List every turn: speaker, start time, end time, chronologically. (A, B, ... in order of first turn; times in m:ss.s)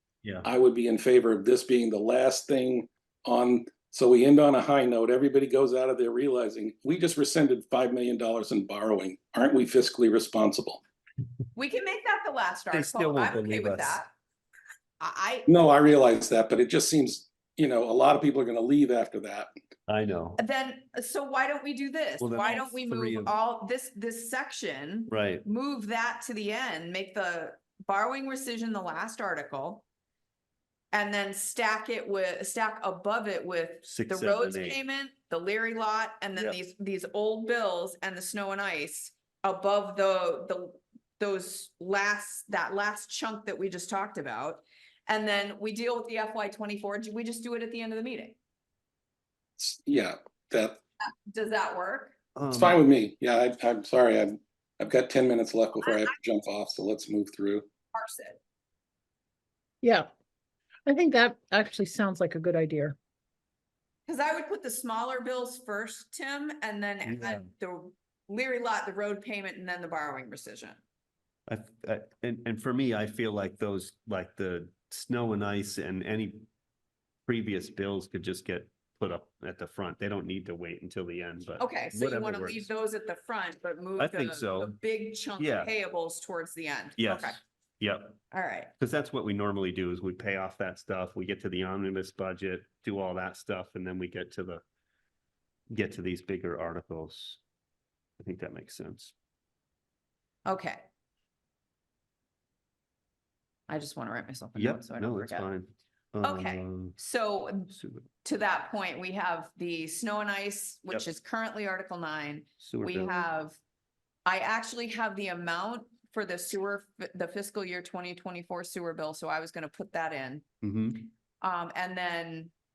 0:00.4-0:10.8 A
0:11.5-0:14.1 B
0:12.7-0:14.0 C
0:15.0-0:15.5 B
0:15.5-0:19.5 A
0:19.9-0:20.4 C
0:20.4-0:29.8 B
0:22.2-0:23.3 C
0:25.1-0:25.4 C
0:30.9-0:48.4 B
0:33.8-0:34.8 C
0:49.6-0:50.8 A
0:51.0-0:52.1 B
0:52.3-0:52.8 C
0:52.5-0:57.6 A
0:57.9-0:58.4 B
0:59.8-1:00.1 D
1:00.8-1:03.0 D
1:04.1-1:10.8 B
1:07.0-1:07.5 C
1:11.5-1:16.4 C
1:17.3-1:22.7 C
1:21.6-1:27.4 B
1:24.0-1:24.8 C
1:25.4-1:25.7 C
1:27.0-1:28.2 C
1:28.3-1:28.7 B
1:28.8-1:34.6 C
1:35.7-1:37.4 C
1:38.2-1:39.1 C
1:40.5-1:40.8 B
1:43.7-1:45.5 B
1:44.5-1:47.0 C
1:46.2-1:47.7 B
1:47.7-1:48.1 C
1:48.2-1:53.6 B
1:52.6-1:53.2 C
1:54.2-2:00.4 B
2:00.6-2:01.1 C
2:01.4-2:02.5 B